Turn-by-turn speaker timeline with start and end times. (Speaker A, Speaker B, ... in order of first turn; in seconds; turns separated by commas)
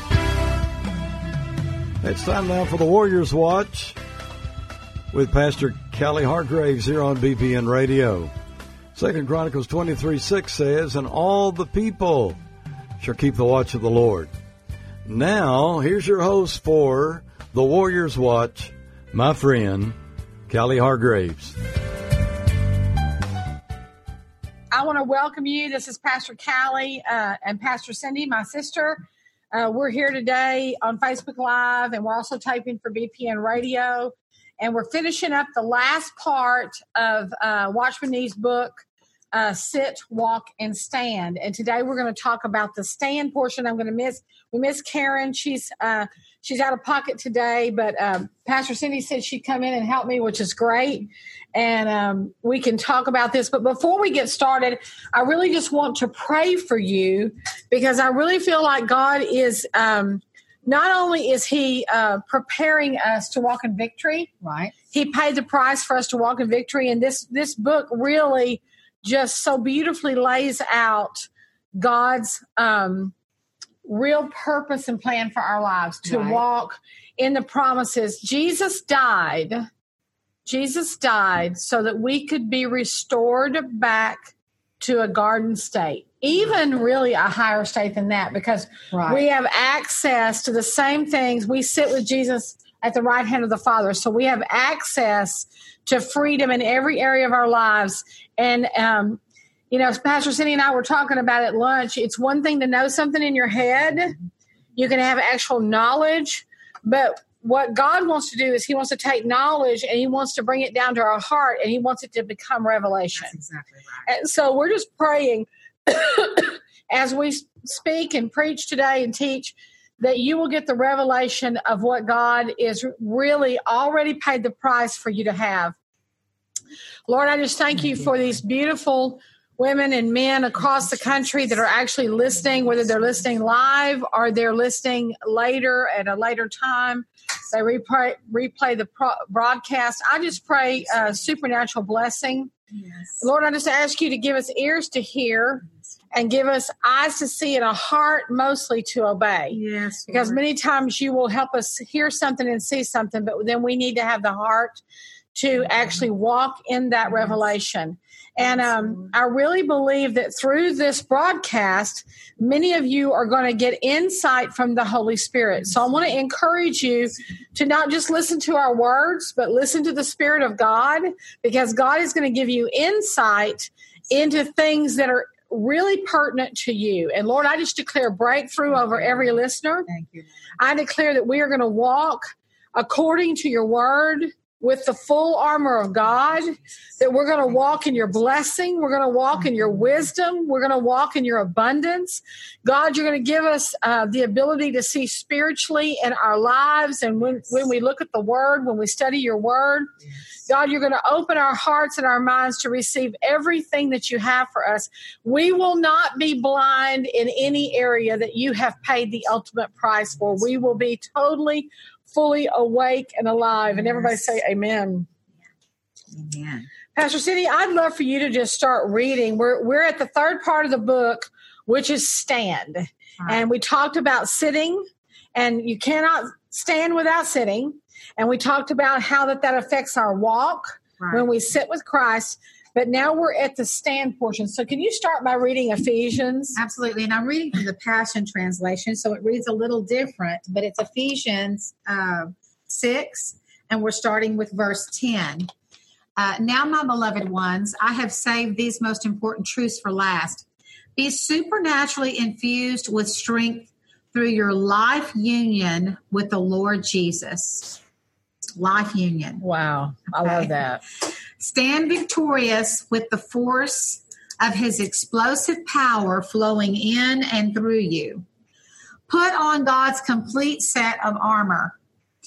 Speaker A: 2.0-4.0, Speaker A: 5.1-8.3, Speaker A: 8.9-12.4, Speaker A: 13.0-14.3, Speaker A: 15.1-20.0, Speaker A: 20.5-21.6, Speaker B: 24.7-64.3, Speaker C: 64.4-64.7, Speaker B: 64.9-73.1, Speaker B: 73.8-79.7, Speaker C: 76.0-76.4, Speaker B: 80.5-99.2, Speaker C: 88.9-89.2, Speaker B: 99.7-104.2, Speaker B: 104.8-113.4, Speaker C: 113.1-114.1, Speaker B: 114.1-125.8, Speaker B: 127.1-142.5, Speaker C: 130.8-131.1, Speaker C: 140.8-141.2, Speaker C: 142.7-143.2, Speaker B: 143.2-154.8, Speaker C: 149.5-150.4, Speaker B: 155.3-179.9, Speaker C: 158.4-159.1, Speaker C: 178.7-180.3, Speaker B: 180.6-199.9, Speaker C: 187.4-187.8, Speaker C: 189.4-189.8, Speaker B: 200.5-215.1, Speaker C: 213.7-214.4, Speaker C: 216.1-216.7, Speaker B: 216.9-236.6, Speaker C: 223.2-223.4, Speaker C: 231.0-231.3, Speaker C: 236.6-245.5, Speaker C: 246.2-257.8, Speaker C: 258.6-259.4, Speaker B: 259.4-260.8, Speaker C: 260.2-260.5, Speaker C: 261.4-268.2, Speaker C: 269.1-271.8